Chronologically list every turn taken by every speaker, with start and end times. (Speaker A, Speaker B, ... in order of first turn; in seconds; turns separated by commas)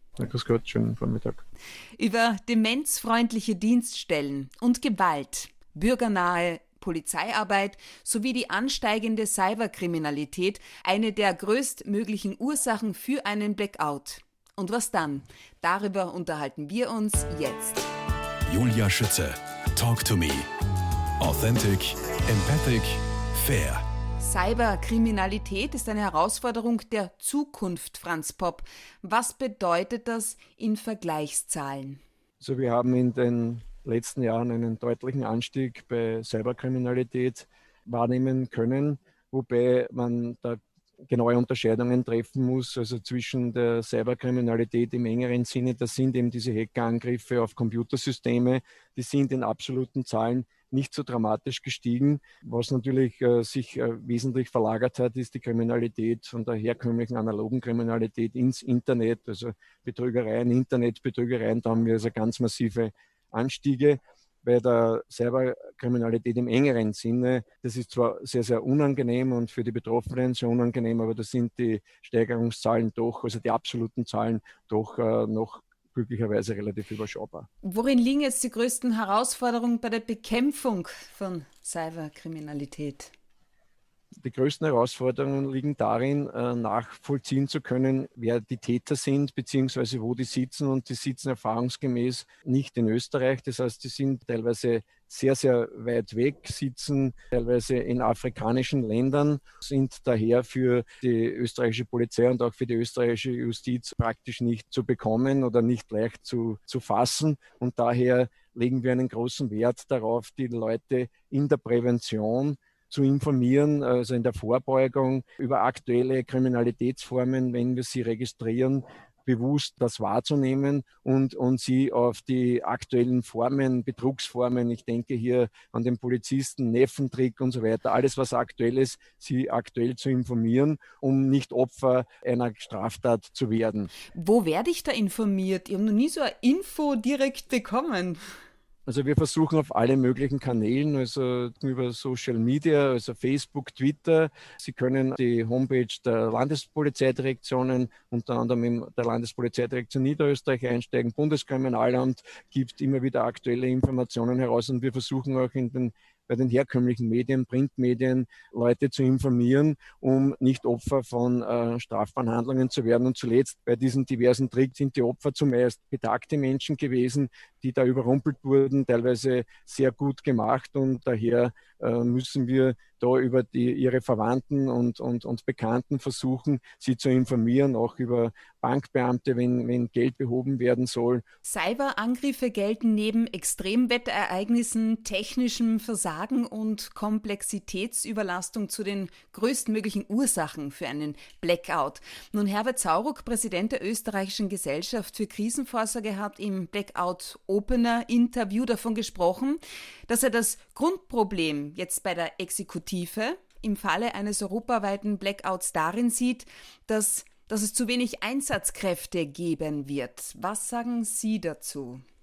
Speaker A: 0.2-1.4, Speaker B: 2.0-17.9, Speaker C: 18.5-20.5, Speaker C: 21.2-23.8, Speaker B: 24.2-32.0, Speaker A: 32.4-77.5, Speaker B: 77.6-83.1, Speaker A: 84.2-133.9, Speaker B: 134.1-138.2, Speaker A: 138.8-181.2, Speaker B: 181.4-212.0